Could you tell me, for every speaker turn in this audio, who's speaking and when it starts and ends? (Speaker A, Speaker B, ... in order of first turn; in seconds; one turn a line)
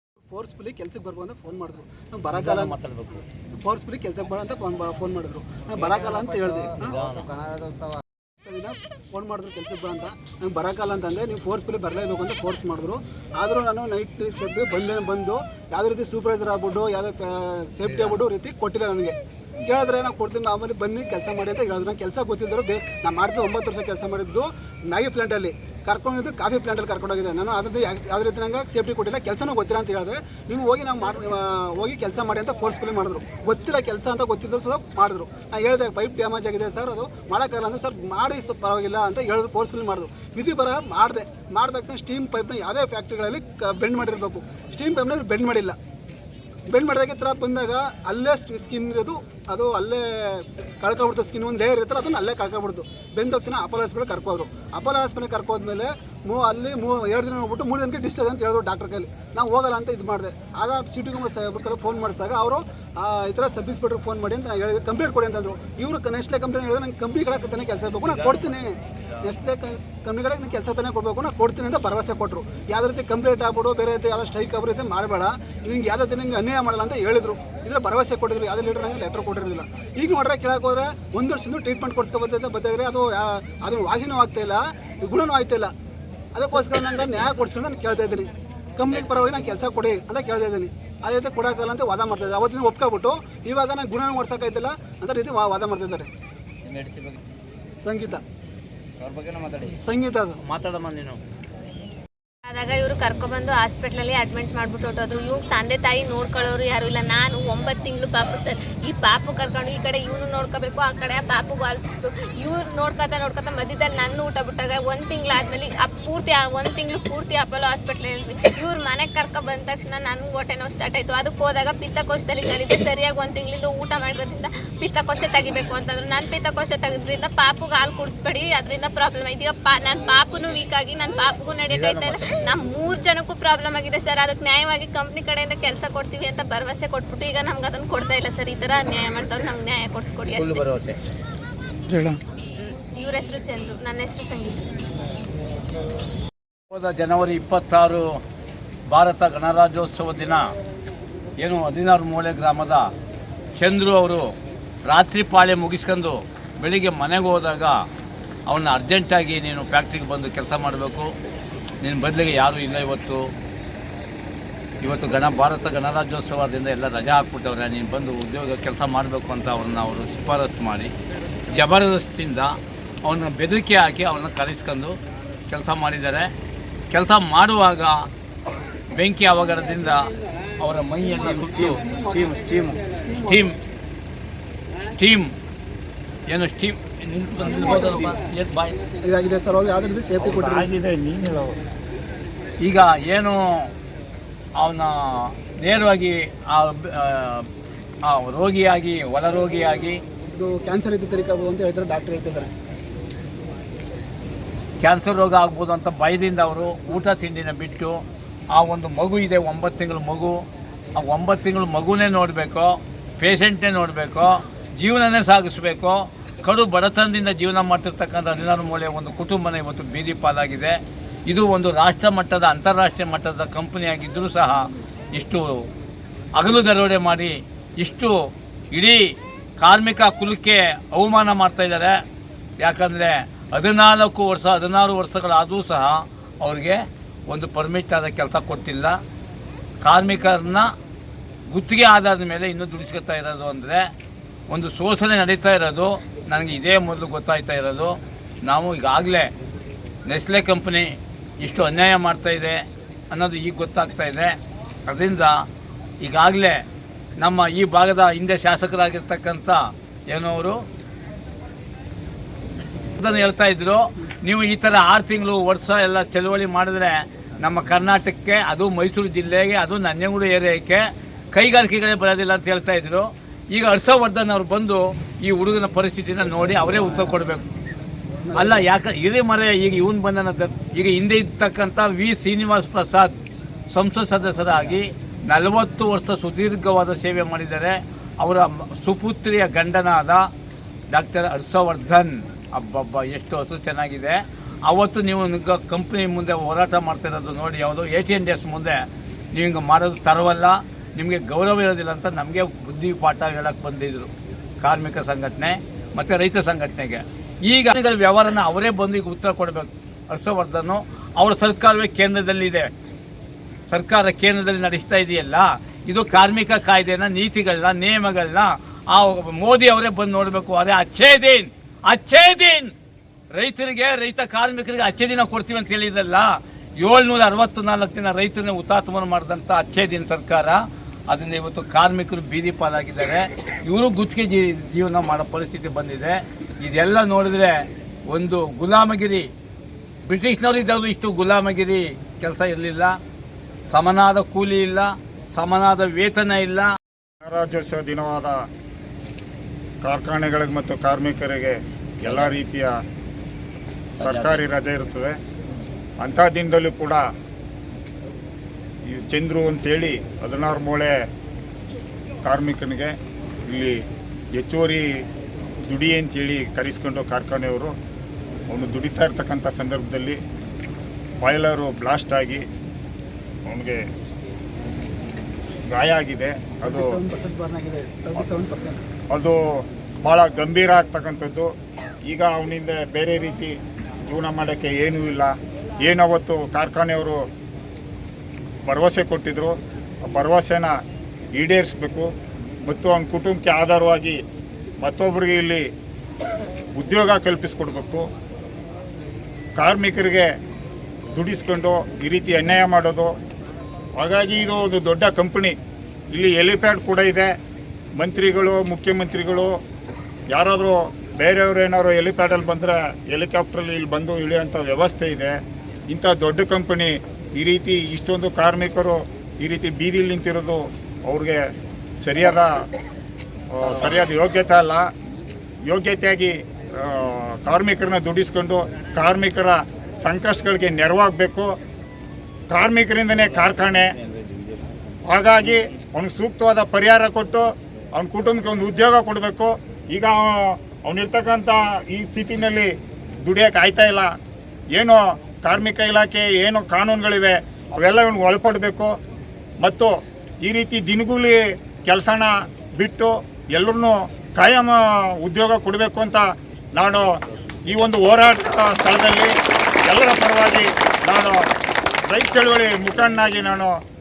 Speaker A: 0.3-6.9
Speaker B: 2.3-3.2
Speaker B: 6.8-7.4
Speaker A: 8.4-45.8
Speaker A: 46.7-85.7
Speaker B: 68.1-68.4
Speaker A: 86.3-96.1
Speaker B: 96.6-97.2
Speaker A: 97.8-98.2
Speaker B: 99.0-99.8
Speaker A: 99.8-100.4
Speaker B: 100.4-101.2
Speaker C: 102.5-140.6
Speaker B: 131.7-132.4
Speaker B: 140.3-141.1
Speaker B: 141.9-142.2
Speaker C: 142.6-144.8
Speaker B: 146.7-148.1
Speaker B: 148.9-150.5
Speaker B: 151.4-152.9
Speaker B: 153.6-154.3
Speaker B: 154.8-157.8
Speaker B: 158.5-161.1
Speaker B: 161.8-163.3
Speaker B: 164.8-170.9
Speaker B: 171.5-174.9
Speaker B: 175.5-176.3
Speaker B: 176.9-178.1
Speaker B: 178.9-183.6
Speaker B: 185.0-185.3
Speaker B: 186.3-188.8
Speaker A: 187.6-187.9
Speaker A: 189.0-190.7
Speaker D: 190.2-191.6
Speaker B: 192.6-193.7
Speaker B: 194.6-197.5
Speaker B: 198.1-200.0
Speaker A: 200.3-202.5
Speaker B: 204.8-208.0
Speaker B: 208.5-210.4
Speaker B: 210.9-220.7
Speaker B: 221.3-225.6
Speaker B: 226.3-228.1
Speaker B: 228.7-231.9
Speaker B: 232.6-239.0
Speaker B: 239.8-240.7
Speaker B: 241.5-243.9
Speaker B: 244.5-249.3
Speaker B: 250.1-255.4
Speaker B: 256.0-256.6
Speaker B: 257.2-260.6
Speaker B: 263.0-277.4
Speaker A: 278.2-278.6
Speaker B: 278.3-283.1
Speaker B: 283.7-290.3
Speaker B: 290.9-298.8
Speaker B: 299.3-304.1
Speaker B: 304.6-312.7
Speaker B: 313.7-322.7
Speaker B: 323.3-337.6
Speaker B: 338.1-339.3
Speaker B: 340.0-342.9
Speaker B: 343.7-346.7
Speaker D: 347.2-348.4
Speaker D: 349.8-352.7
Speaker B: 352.0-352.4
Speaker D: 354.0-355.2
Speaker B: 354.0-354.4
Speaker D: 356.0-357.0
Speaker D: 358.9-360.9
Speaker D: 362.2-362.9
Speaker D: 363.4-363.8
Speaker D: 364.4-364.8
Speaker D: 365.6-367.7
Speaker D: 368.5-370.2
Speaker D: 371.2-372.4
Speaker D: 373.5-373.8
Speaker D: 375.7-376.8
Speaker A: 376.6-378.8
Speaker D: 379.1-379.4
Speaker D: 380.0-381.5
Speaker D: 382.1-383.5
Speaker D: 384.0-387.2
Speaker D: 388.6-390.7
Speaker D: 391.3-392.1
Speaker D: 392.6-394.2
Speaker D: 394.8-395.6
Speaker D: 396.8-398.0
Speaker D: 399.6-400.3
Speaker D: 401.1-403.1
Speaker D: 404.0-405.6
Speaker D: 406.1-407.3
Speaker D: 408.0-409.5
Speaker D: 410.3-415.3
Speaker D: 415.9-421.4
Speaker D: 422.0-422.5
Speaker D: 423.5-424.9
Speaker D: 425.7-431.5
Speaker D: 432.5-433.9
Speaker D: 435.1-442.7
Speaker D: 443.2-444.1
Speaker D: 444.8-448.9
Speaker D: 449.6-457.2
Speaker D: 457.7-459.3
Speaker D: 459.8-461.5
Speaker D: 462.1-463.8